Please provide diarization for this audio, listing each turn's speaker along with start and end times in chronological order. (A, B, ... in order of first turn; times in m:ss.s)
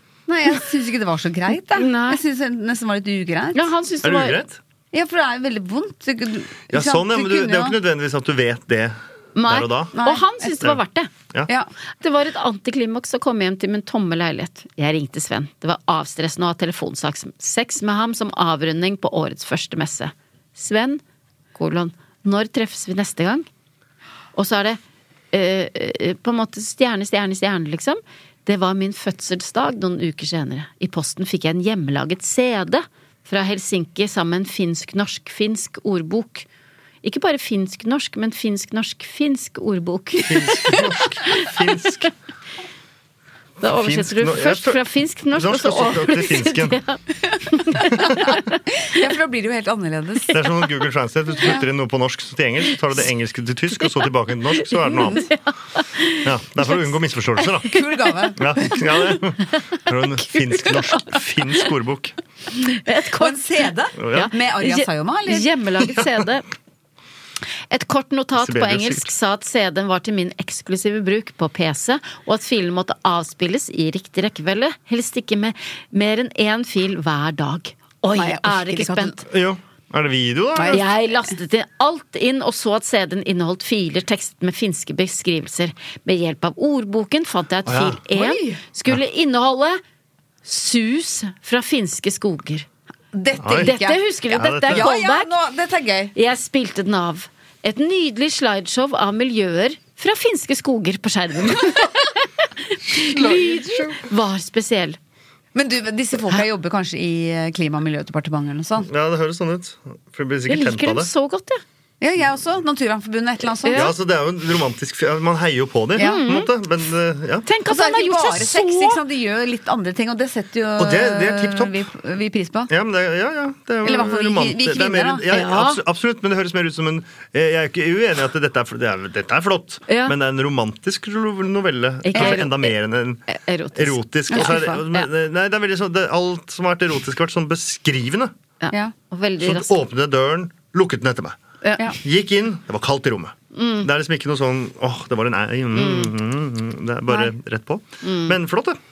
0:00.3-0:03.6 A
0:01.7-0:02.2 B
0:03.5-0:04.4 B
0:04.0-0:04.6 C
0:04.9-0:07.8 A
0:06.7-0:09.9 C
0:09.4-0:11.1 B
0:09.9-0:10.3 A
0:12.0-0:21.0 B
0:21.5-0:23.4 B
0:24.3-0:24.8 B
0:25.3-0:36.4 B
0:37.0-0:40.7 B
0:40.3-0:42.1 C
0:43.6-0:48.4 B
0:43.6-0:44.8 C
0:45.3-0:46.8 C
0:47.8-0:50.3 A
0:50.3-0:55.2 C
0:54.5-0:56.8 B
0:55.0-0:55.2 A
0:56.2-0:57.7 C
0:57.6-0:59.2 A
0:58.4-1:02.2 C
1:00.5-1:01.1 B
1:02.7-1:03.4 B
1:03.2-1:05.4 A
1:04.0-1:04.3 C
1:04.1-1:06.4 B
1:07.7-1:19.2 B
1:08.4-1:09.1 C
1:18.1-1:19.2 A
1:19.3-1:20.8 C
1:20.6-1:20.8 A
1:20.7-1:29.8 B
1:27.6-1:28.0 C
1:28.1-1:28.6 A
1:30.4-1:32.6 B
1:33.1-1:34.0 A
1:33.4-1:33.7 C
1:33.6-1:35.3 B
1:34.3-1:34.9 C
1:34.7-1:36.1 A
1:36.1-1:45.0 B
1:43.1-1:43.6 A
1:45.5-1:48.9 A
1:48.8-1:51.1 C
1:50.5-1:51.6 B
1:52.0-1:54.0 A
1:53.6-1:53.9 B
1:53.7-1:57.5 C
1:56.0-1:56.3 A
1:56.0-1:56.5 B
1:57.5-1:59.0 B
1:57.6-2:02.7 A
2:00.8-2:01.8 C
2:02.7-2:13.2 C
2:03.8-2:05.2 A
2:05.3-2:05.8 B
2:09.9-2:10.1 B
2:12.0-2:12.7 B
2:12.1-2:12.4 A
2:13.3-2:15.1 B
2:13.8-2:18.3 C
2:14.3-2:14.8 A
2:18.6-2:19.8 B
2:19.4-2:21.4 C
2:21.6-2:21.9 B
2:22.0-2:28.8 C
2:23.5-2:23.9 B
2:25.7-2:26.1 B
2:28.0-2:28.4 B